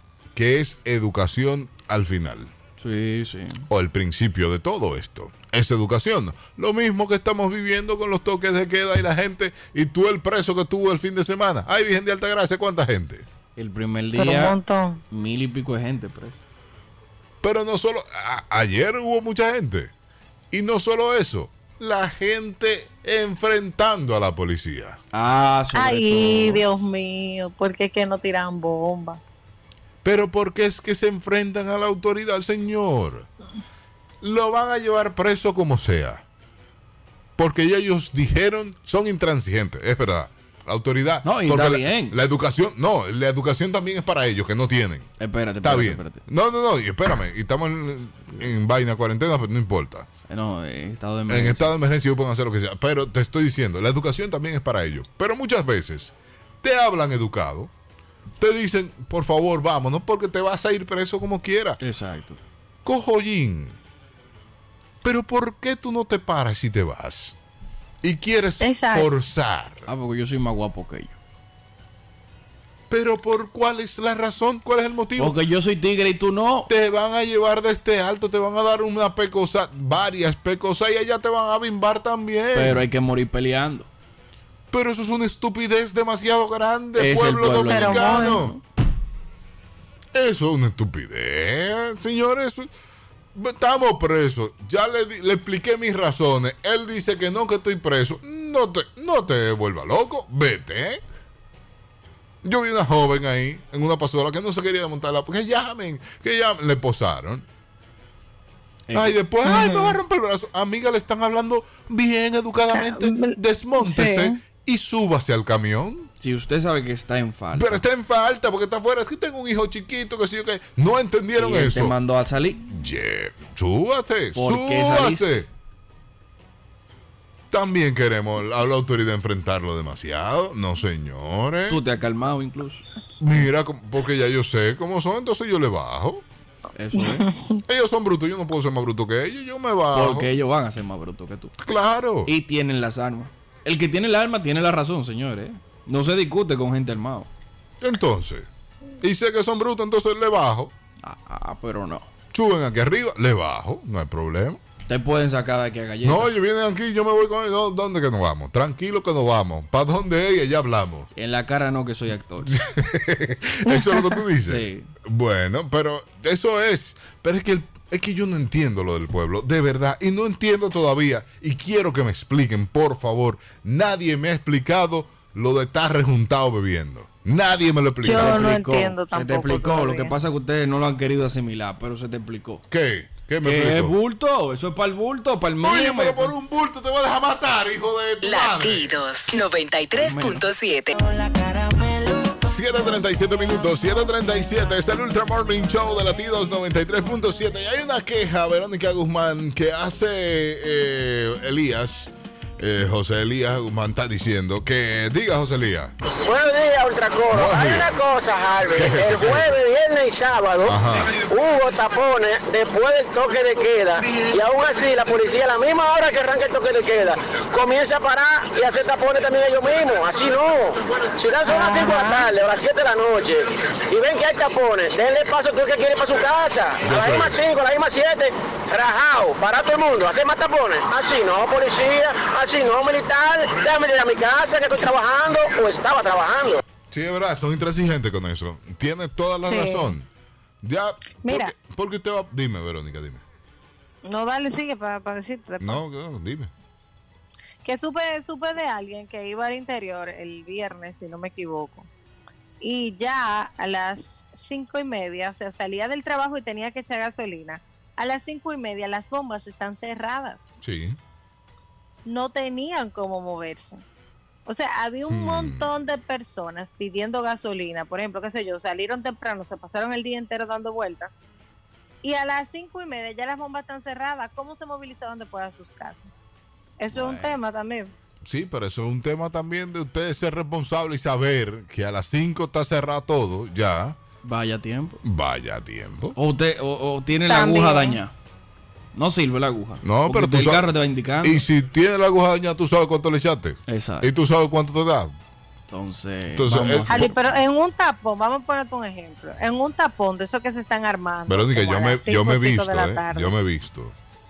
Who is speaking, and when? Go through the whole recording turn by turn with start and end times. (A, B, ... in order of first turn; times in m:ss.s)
0:00.4-0:02.5 A
0:02.8-0:03.7 B
0:03.7-0:13.3 A
0:13.6-0:14.6 B
0:14.2-0:15.0 C
0:15.1-0:16.4 B
0:17.4-0:19.9 A
0:20.5-0:25.0 A
0:25.1-0:26.6 B
0:25.7-0:29.2 C
0:30.0-0:33.3 A
0:34.2-0:36.2 A
0:37.4-0:50.1 A
0:41.2-0:42.2 B
0:45.2-0:46.2 B
0:50.3-0:51.7 B
0:51.3-0:57.7 A
0:58.4-1:01.8 A
1:01.8-1:02.4 B
1:02.8-1:03.8 A
1:05.0-1:07.4 A
1:08.0-1:09.9 A
1:08.6-1:09.1 C
1:09.9-1:11.2 B
1:12.9-1:15.4 A
1:15.2-1:16.7 B
1:16.7-1:22.9 A
1:22.5-1:23.9 B
1:24.7-1:28.6 A
1:27.0-1:28.6 B
1:27.6-1:28.4 C
1:30.1-1:32.7 A
1:33.3-1:41.0 A
1:42.4-1:47.5 A
1:48.9-1:49.2 B
1:48.9-1:56.1 A
1:49.4-1:50.0 C
1:52.7-1:54.4 C
1:56.2-1:57.8 B
1:57.5-2:01.9 A
2:01.4-2:02.6 B
2:02.7-2:05.5 A
2:04.4-2:05.3 B
2:07.5-2:11.8 A
2:11.7-2:12.8 B
2:13.2-2:16.2 A
2:16.8-2:17.3 B
2:17.0-2:17.6 C
2:17.7-2:20.3 A
2:19.9-2:21.5 B
2:21.6-2:22.3 A
2:22.3-2:27.3 B
2:27.8-2:28.5 A
2:29.0-2:30.7 A
2:31.0-2:32.1 B
2:32.3-2:34.6 A
2:34.9-2:36.3 B
2:36.0-2:41.1 A
2:41.2-2:42.6 B
2:42.4-2:58.5 A
2:43.7-2:44.1 C
2:44.5-2:44.9 B
2:58.0-3:00.2 C
2:58.2-3:02.6 B
3:02.7-3:04.0 A
3:03.4-3:06.3 B
3:05.6-3:09.0 A
3:08.2-3:11.0 D
3:10.0-3:10.4 B
3:12.4-3:25.9 A
3:26.2-3:56.6 E
3:27.3-3:27.9 A
3:28.7-3:29.6 A
3:30.7-3:31.2 A
3:41.4-3:42.3 C
3:46.8-3:47.4 A
3:56.9-4:00.1 A
3:59.4-3:59.9 C
4:00.6-4:03.2 A
4:01.3-4:01.5 C
4:04.1-4:05.8 C
4:05.6-4:06.5 A
4:07.6-4:11.9 C
4:12.6-4:20.5 C
4:20.6-4:21.0 A
4:22.0-4:23.8 C
4:24.5-4:31.1 C
4:25.1-4:25.8 A
4:32.0-4:36.2 C
4:36.8-4:37.9 C
4:36.9-4:37.4 B
4:38.2-4:44.0 A
4:44.2-4:45.0 B
4:45.0-4:46.2 A
4:46.2-4:48.1 B
4:47.3-4:48.0 C
4:49.0-4:51.4 B
4:49.8-4:50.7 A
4:51.2-4:55.1 A
4:53.7-4:54.1 B
4:55.7-4:57.3 B
4:56.4-4:57.1 A
4:56.9-5:03.3 C
5:01.3-5:03.9 A